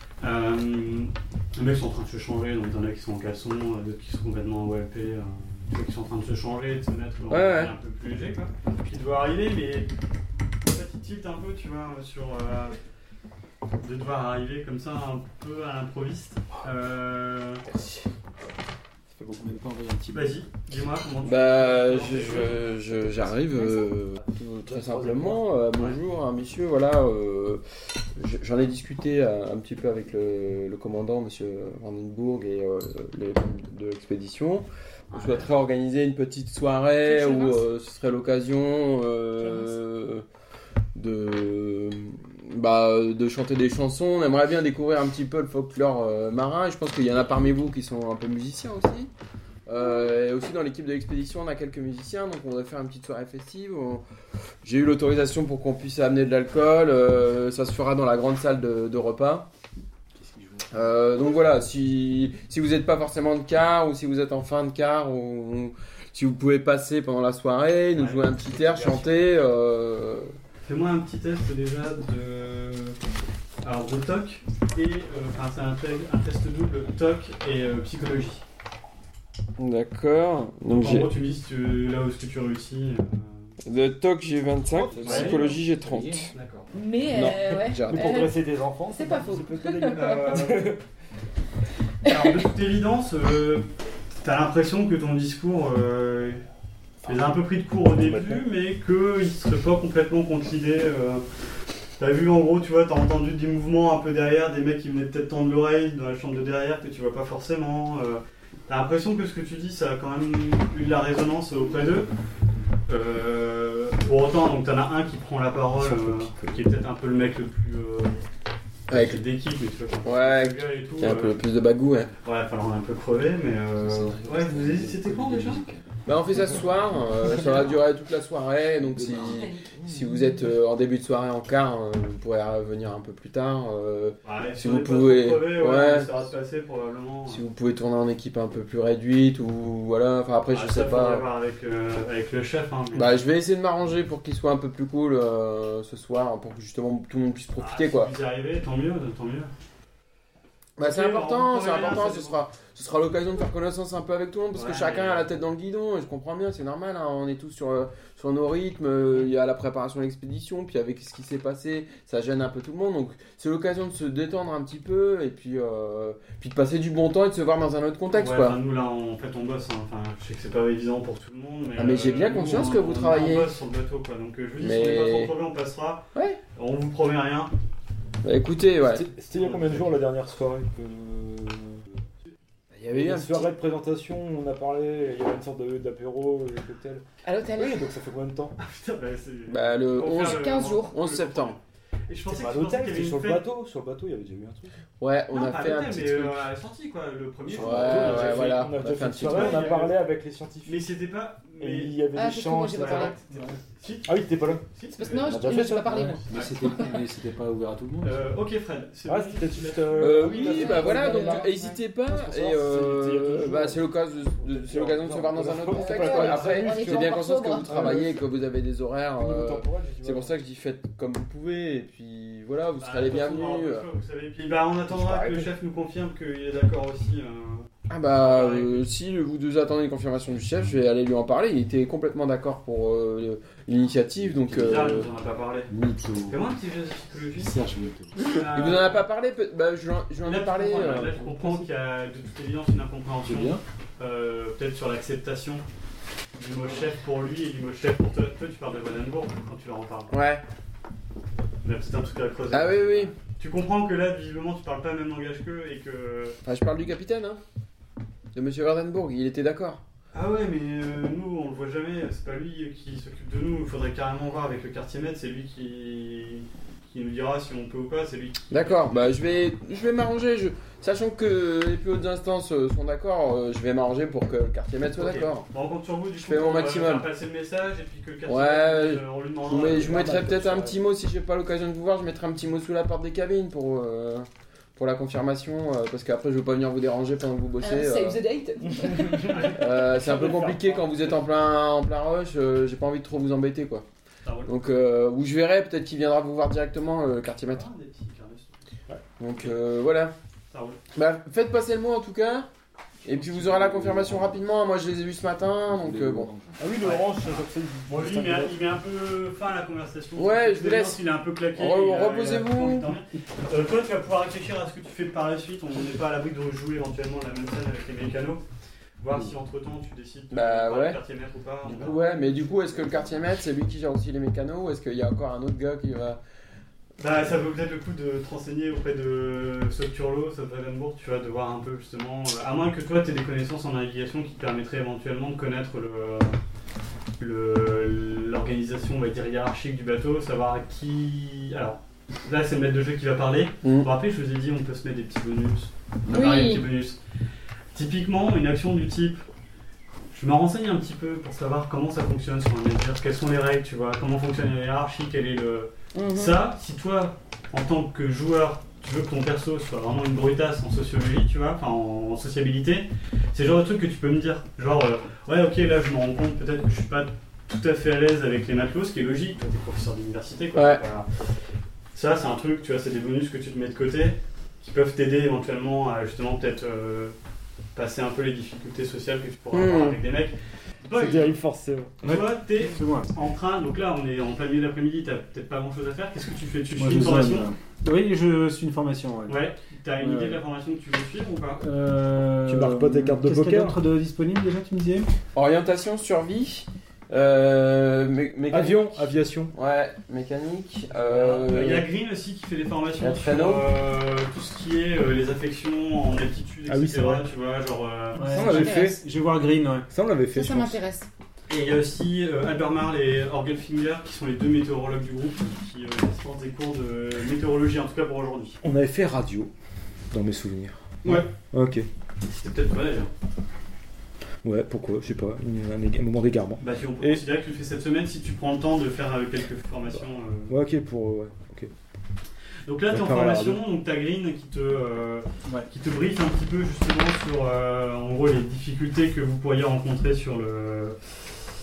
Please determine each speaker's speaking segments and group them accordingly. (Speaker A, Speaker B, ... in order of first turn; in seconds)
Speaker A: 0.2-9.9, 10.6-12.8, 13.8-17.6, 20.1-22.8, 35.1-35.4, 68.0-69.2, 70.6-73.0, 73.6-78.4, 80.7-83.5, 85.0-85.4, 86.3-86.7, 90.0-90.7, 92.0-93.7, 94.2-96.4, 97.0-101.2, 102.0-112.1, 112.9-118.2, 118.9-121.4, 122.2-125.6, 134.2-137.4, 140.5-143.2, 147.6-149.5, 150.8-152.4, 154.5-155.3, 168.1-177.5, 179.3-180.0, 188.6-193.4, 195.3-200.0, 200.6-202.0, 202.7-206.8, 208.0-210.8, 222.8-228.8, 234.5-237.6, 238.2-239.0, 240.2-245.6, 246.3-250.1, 251.6-256.4, 260.1-269.1, 274.9-280.1, 289.2-289.8, 294.2-294.5, 297.5-298.6, 300.5-300.8, 306.8-318.4, 319.0-322.0, 327.0-336.4, 337.2-347.0, 347.7-349.2, 350.1-371.2, 371.9-377.1, 377.7-381.4, 382.0-387.5, 389.3-391.6, 400.9-408.4, 411.5-418.6, 421.0-421.3, 422.2-423.1, 426.6-430.6, 432.6-441.2
Speaker B: 7.3-7.7, 21.2-27.6, 28.1-40.2, 40.9-49.1, 49.7-54.0, 54.6-59.5, 60.7-70.3, 79.6-81.1, 83.6-86.3, 87.1-88.2, 118.9-119.2, 120.0-122.1, 126.0-136.2, 137.3-141.3, 142.9-148.1, 150.8-168.6, 171.8-173.5, 174.6-175.3, 178.2-179.1, 182.7-183.5, 189.5-191.6, 195.0-196.5, 197.5-199.8, 210.0-223.8, 224.9-225.5, 227.9-235.1, 238.3-241.7, 250.1-250.4, 252.5-253.1, 256.4-257.4, 258.3-259.8, 268.5-275.5, 276.2-277.1, 278.3-288.2, 289.4-293.8, 294.4-297.7, 299.2-300.1, 300.9-302.5, 303.0-306.3, 310.1-312.9, 320.3-321.0, 321.7-326.2, 343.6-343.9, 370.5-370.8, 379.5-380.0, 395.3-401.9, 403.0-403.7
Speaker C: 19.1-19.6, 24.9-25.3, 85.0-85.6, 87.3-90.8, 97.0-97.3, 97.9-98.4, 115.8-116.6, 178.8-181.9, 182.9-188.6, 192.3-194.7, 197.5-200.9, 201.6-203.4, 204.0-204.6, 205.2-206.2, 209.1-218.2, 219.2-220.3, 279.5-280.8, 288.6-290.9, 306.5-308.6, 380.9-382.1, 392.4-393.8, 398.5-399.5, 406.7-407.3, 408.2-409.0, 409.9-410.8, 418.6-419.5, 420.1-421.9, 424.4-427.2, 430.5-431.7, 432.9-433.6
Speaker D: 19.3-20.4, 60.2-60.7, 84.8-86.3, 123.8-125.9, 128.9-129.5, 206.3-208.2, 234.2-235.0, 235.7-236.5, 237.3-238.4, 243.2-243.6, 303.2-304.4, 305.7-306.6, 382.0-383.1, 386.7-389.4, 390.0-390.4, 391.6-395.1, 408.1-409.9
Speaker E: 23.5-23.9, 37.0-37.6, 39.4-39.7, 86.7-88.3, 88.9-90.5, 129.3-129.6, 187.2-187.8, 190.0-190.9, 202.1-203.1, 204.9-207.0, 210.4-211.8, 215.7-218.0, 287.6-289.5, 346.1-346.6, 355.9-356.4, 408.3-409.0, 410.3-411.1